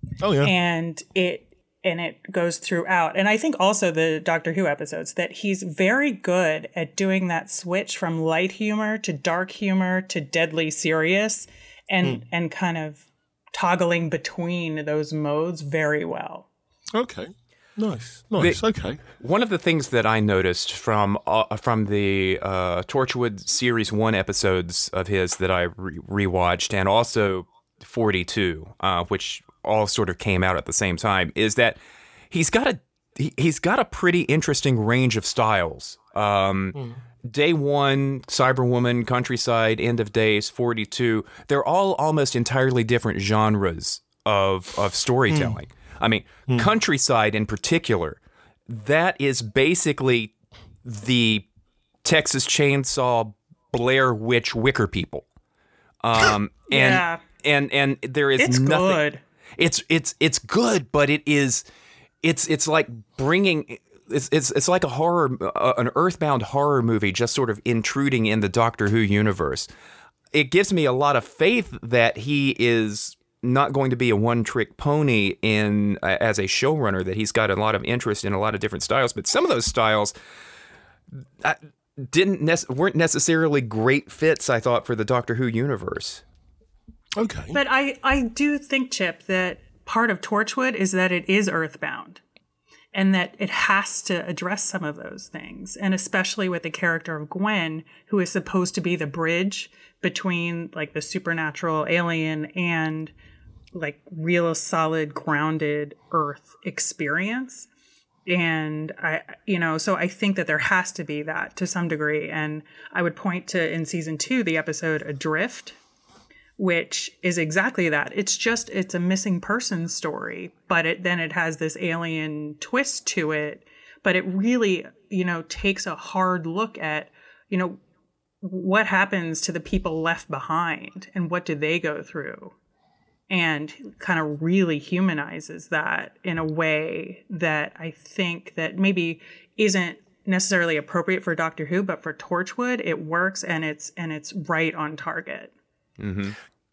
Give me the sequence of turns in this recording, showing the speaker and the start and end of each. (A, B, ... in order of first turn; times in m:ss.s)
0:00.2-0:00.5 A
0:00.4-0:16.5 B
0:16.9-0:19.0 A
0:18.4-0:18.6 C
0:19.2-0:31.8 C
0:32.3-0:50.3 C
0:45.3-0:45.6 A
0:50.8-0:51.4 C
0:52.0-0:55.2 C
0:56.0-0:59.0 C
0:56.7-0:57.2 B
0:58.4-0:59.2 B
0:59.6-1:01.6 C
1:02.2-1:09.7 C
1:10.3-1:20.1 C
1:21.4-1:26.2 C
1:27.2-1:27.6 A
1:27.5-1:32.2 B
1:32.9-1:43.1 B
1:43.7-1:47.7 B
1:48.3-1:55.8 B
1:56.6-2:07.8 B
2:08.4-2:12.5 B
2:13.3-2:25.5 B
2:26.0-2:26.4 C